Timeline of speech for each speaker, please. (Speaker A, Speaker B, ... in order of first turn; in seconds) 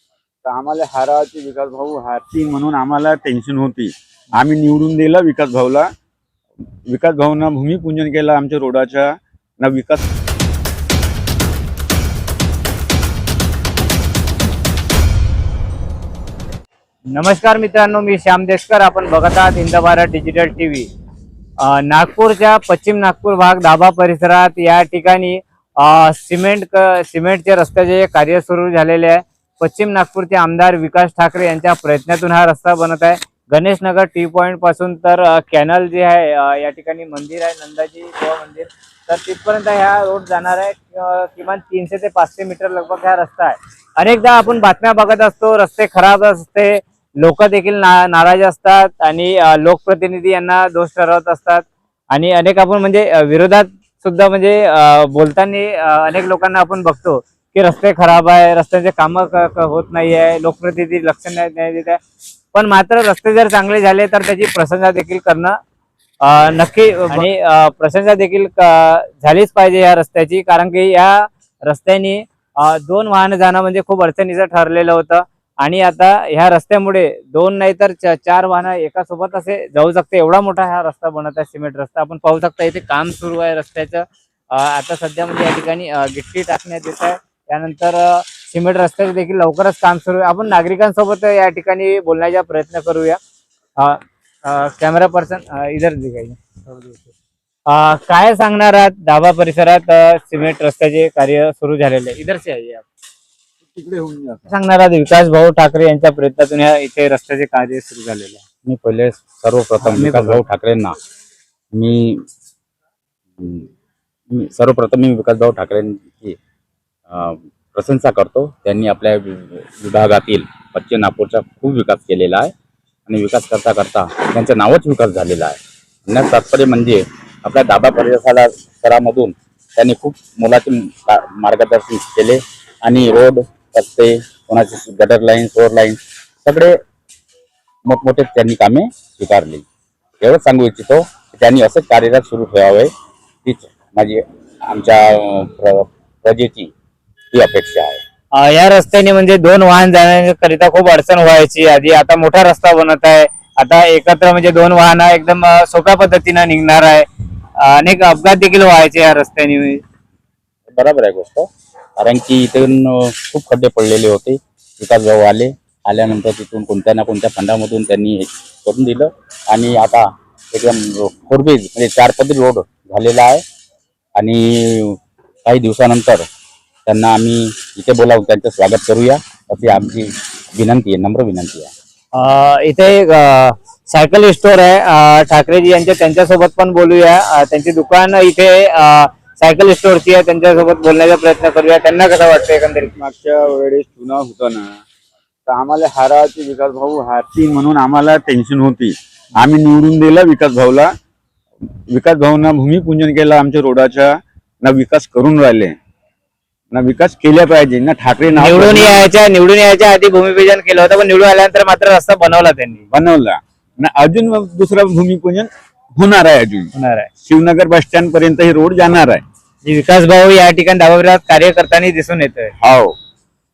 Speaker A: 0.5-5.9, 6.9-10.1, 103.6-104.5, 193.0-194.8, 195.5-200.9, 201.9-205.8, 206.7-209.0, 212.9-216.7, 217.2-219.2, 222.6-222.9
Speaker B: 17.1-20.9, 21.6-62.0, 62.5-65.6, 66.2-93.2, 93.8-96.4, 97.7-102.8, 104.5-108.4, 109.8-110.4, 148.3-157.1, 157.6-159.8, 182.2-192.9, 208.3-212.8, 216.7-217.1, 219.6-222.5
Speaker C: 108.7-111.0, 111.7-112.2, 113.4-113.7, 114.3-116.4, 117.1-122.5, 123.1-136.8, 137.9-139.6, 140.2-142.9, 143.4-146.7, 147.3-148.0, 160.7-161.5, 162.0-173.4, 174.2-176.2, 176.9-181.7